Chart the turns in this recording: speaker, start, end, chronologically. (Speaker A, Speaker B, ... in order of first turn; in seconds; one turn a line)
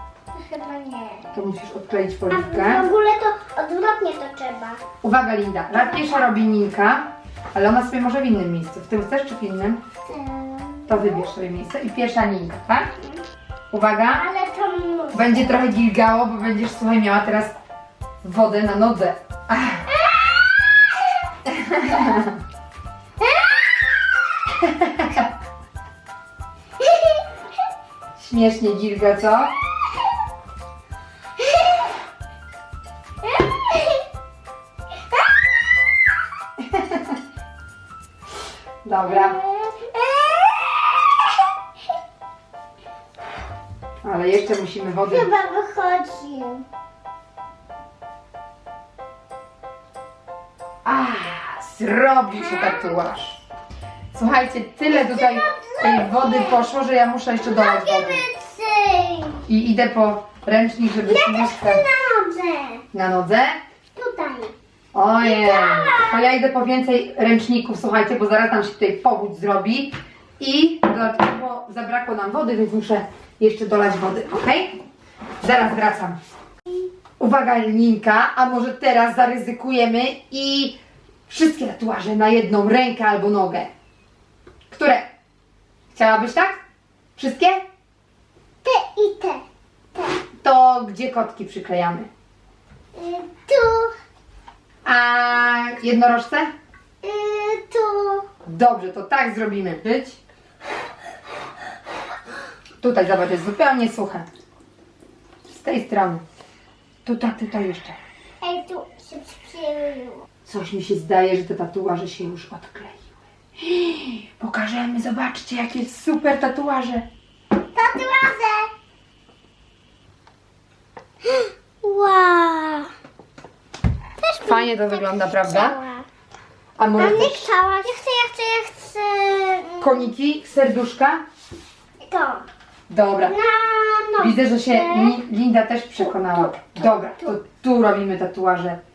Speaker A: 0.3-1.3
Speaker B: 1.3-2.9
Speaker A: 2.3-4.8
Speaker B: 5.0-9.8
Speaker A: 10.1-11.3
Speaker B: 10.9-12.9
Speaker B: 13.7-14.3
Speaker A: 14.1-15.5
Speaker B: 15.1-17.5
Speaker B: 18.2-19.8
Speaker A: 20.0-20.9
Speaker B: 21.4-22.3
Speaker A: 23.2-23.8
Speaker B: 24.6-25.3
Speaker A: 26.8-27.1
Speaker B: 28.2-29.5
Speaker A: 33.3-34.0
Speaker B: 36.6-37.2
Speaker B: 38.8-39.4
Speaker A: 39.0-41.4
Speaker B: 44.0-45.3
Speaker A: 45.0-46.6
Speaker B: 50.8-53.4
Speaker A: 52.3-53.0
Speaker B: 54.1-58.2
Speaker A: 54.9-56.7
Speaker A: 57.4-59.5
Speaker B: 59.5-61.8
Speaker A: 61.0-62.8
Speaker B: 62.9-63.6
Speaker A: 63.9-64.5
Speaker B: 64.9-74.8
Speaker A: 65.2-66.3
Speaker B: 75.4-76.2
Speaker B: 77.2-83.7
Speaker B: 84.7-85.1
Speaker B: 85.9-86.6
Speaker B: 87.2-87.6
Speaker A: 88.6-89.4
Speaker B: 90.4-92.1
Speaker A: 92.9-93.9
Speaker B: 94.8-96.5
Speaker A: 97.0-98.2
Speaker B: 98.5-100.2
Speaker B: 102.8-104.3
Speaker B: 105.5-106.2
Speaker B: 107.0-108.0
Speaker A: 108.4-110.2
Speaker B: 110.5-117.1
Speaker A: 117.7-118.7
Speaker A: 121.2-122.9
Speaker A: 124.2-126.0
Speaker B: 124.4-125.8
Speaker B: 126.8-127.5
Speaker A: 126.9-130.1
Speaker B: 129.8-131.2
Speaker A: 132.0-132.4
Speaker B: 132.9-133.4
Speaker A: 133.2-135.2
Speaker B: 134.2-138.8
Speaker A: 136.0-137.4